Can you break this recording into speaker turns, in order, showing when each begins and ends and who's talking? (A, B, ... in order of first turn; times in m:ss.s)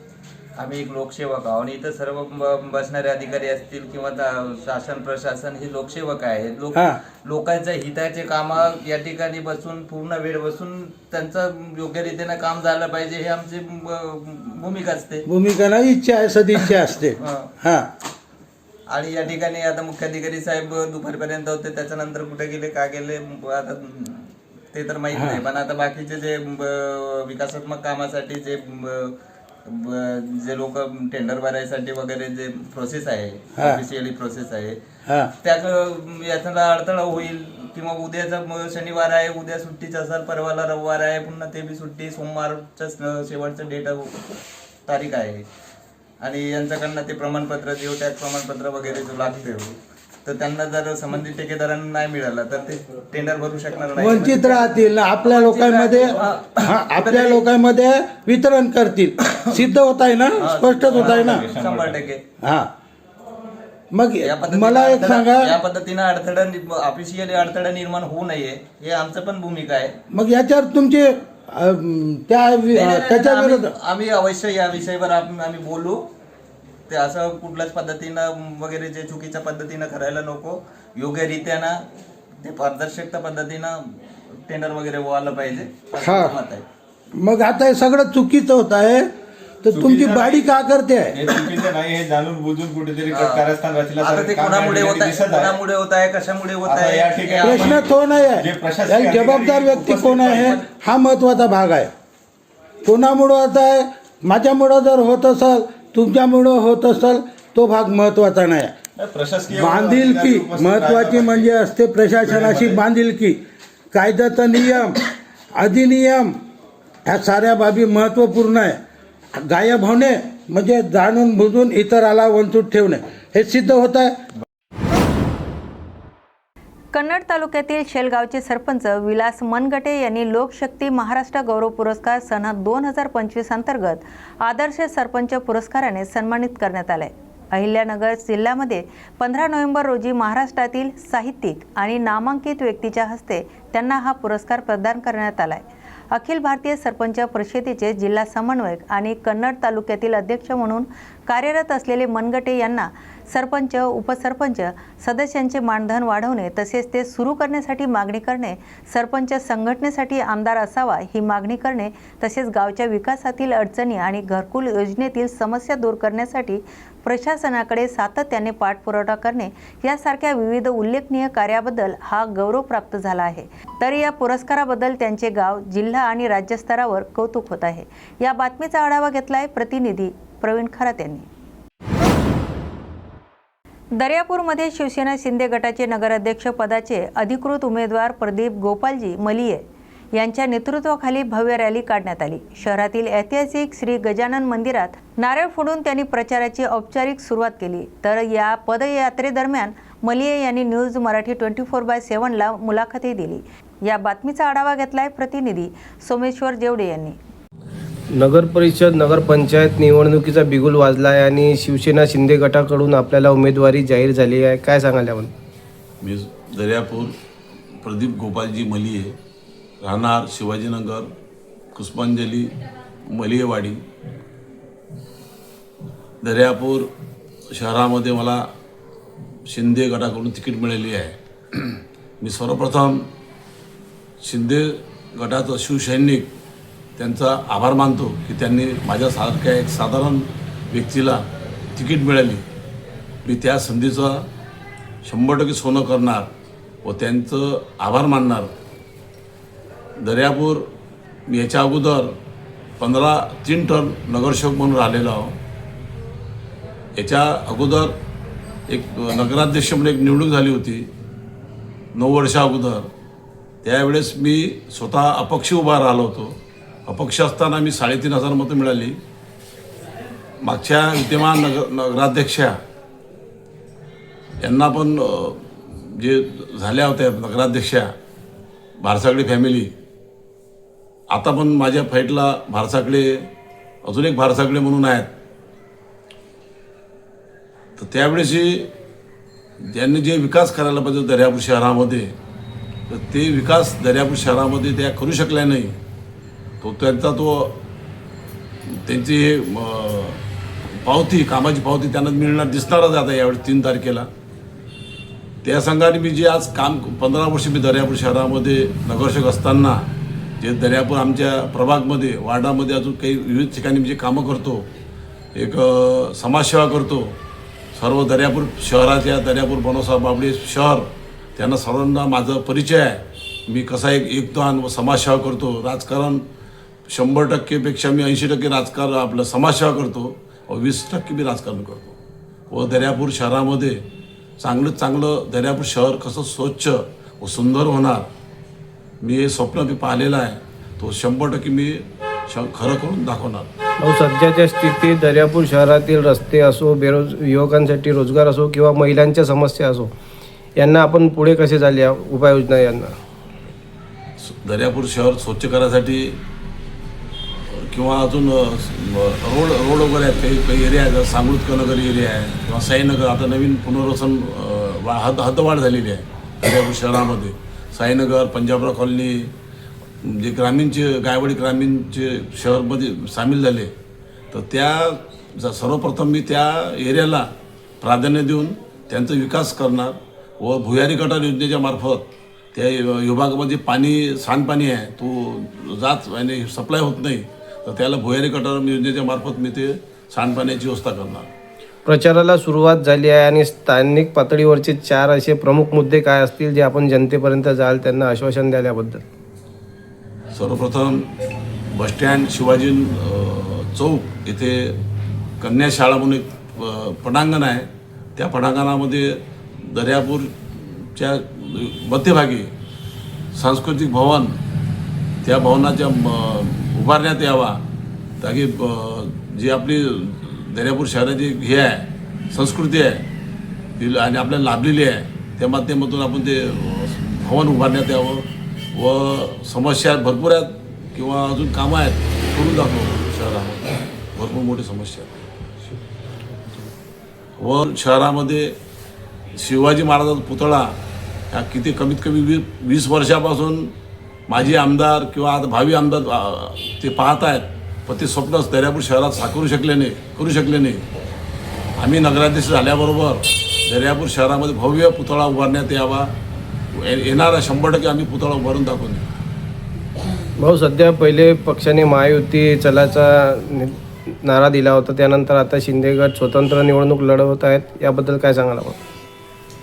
0:00.6-0:15.2 A
0:06.8-0:07.0 B
0:15.3-0:17.9 B
0:17.2-0:17.5 A
0:18.9-0:29.2 A
0:29.7-0:34.8 A
0:35.1-0:35.3 B
0:35.4-0:44.2 A
0:44.9-0:45.4 A
0:46.2-0:54.7 A
0:54.0-1:01.4 B
0:55.2-0:57.4 A
1:00.4-1:02.2 A
1:00.9-1:02.0 C
1:02.4-1:02.7 B
1:03.9-1:05.5 B
1:04.2-1:10.0 A
1:10.1-1:13.7 B
1:12.7-1:16.1 A
1:16.9-1:21.8 A
1:22.4-1:26.6 A
1:26.0-1:26.4 B
1:27.2-1:29.1 B
1:29.6-1:31.4 B
1:29.7-1:30.5 C
1:31.1-1:35.6 C
1:33.1-1:33.5 A
1:34.0-1:37.9 A
1:36.6-1:40.6 C
1:37.4-1:41.9 B
1:42.8-1:48.8 B
1:49.0-1:51.5 C
1:49.5-1:55.0 B
1:52.2-1:52.8 C
1:55.6-1:56.4 B
1:57.1-1:58.8 B
1:59.4-2:04.2 B
2:06.9-2:25.6 D
2:26.1-3:01.2 D
3:04.0-3:09.6 D
3:10.2-3:27.2 D
3:28.1-3:35.3 E
3:36.0-3:37.2 F
3:37.8-3:39.2 F
3:39.8-3:41.1 F
3:41.8-3:42.5 F
3:43.1-3:43.8 F
3:46.2-3:46.9 F
3:47.5-3:48.5 F
3:49.5-3:53.1 F
3:54.2-3:56.3 F
3:57.0-4:02.4 F
4:03.2-4:04.2 F
4:05.0-4:06.3 F
4:06.8-4:08.5 F
4:10.0-4:10.7 F
4:11.3-4:12.2 F
4:12.8-4:15.4 F
4:17.0-4:17.9 F
4:18.7-4:20.9 F
4:22.0-4:22.9 F
4:23.6-4:29.0 F
4:30.4-4:32.6 F
4:34.4-4:37.9 F
4:38.8-4:39.7 F
4:41.1-4:43.3 F
4:43.8-4:45.1 F
4:47.8-4:48.7 F
4:49.6-4:52.2 F
4:52.9-4:55.8 F
4:56.6-4:57.6 F
4:58.7-5:00.2 F
5:00.7-5:04.1 F
5:05.4-5:09.9 F
5:10.4-5:14.7 F
5:15.4-5:17.2 F
5:17.8-5:26.2 F
5:26.9-5:32.0 F
5:32.5-5:33.8 F
5:34.4-5:38.1 F
5:39.0-5:43.5 F
5:43.8-5:49.9 E
5:50.6-5:53.0 E
5:54.2-5:56.2 F
5:57.5-6:09.3 F
6:10.0-6:13.7 F
6:14.3-6:17.3 F
6:17.8-6:31.3 F
6:31.9-6:39.0 E
6:40.3-6:41.1 F
6:41.7-6:44.8 F
6:45.4-6:52.5 F
6:53.4-6:54.4 F
6:55.2-6:57.6 F
6:58.2-7:03.1 F
7:03.8-7:15.2 F
7:17.4-7:18.6 F
7:19.4-7:20.8 F
7:21.3-7:23.7 F
7:24.3-7:30.8 F
7:31.8-7:36.1 F
7:36.7-7:39.1 F
7:40.4-7:48.8 E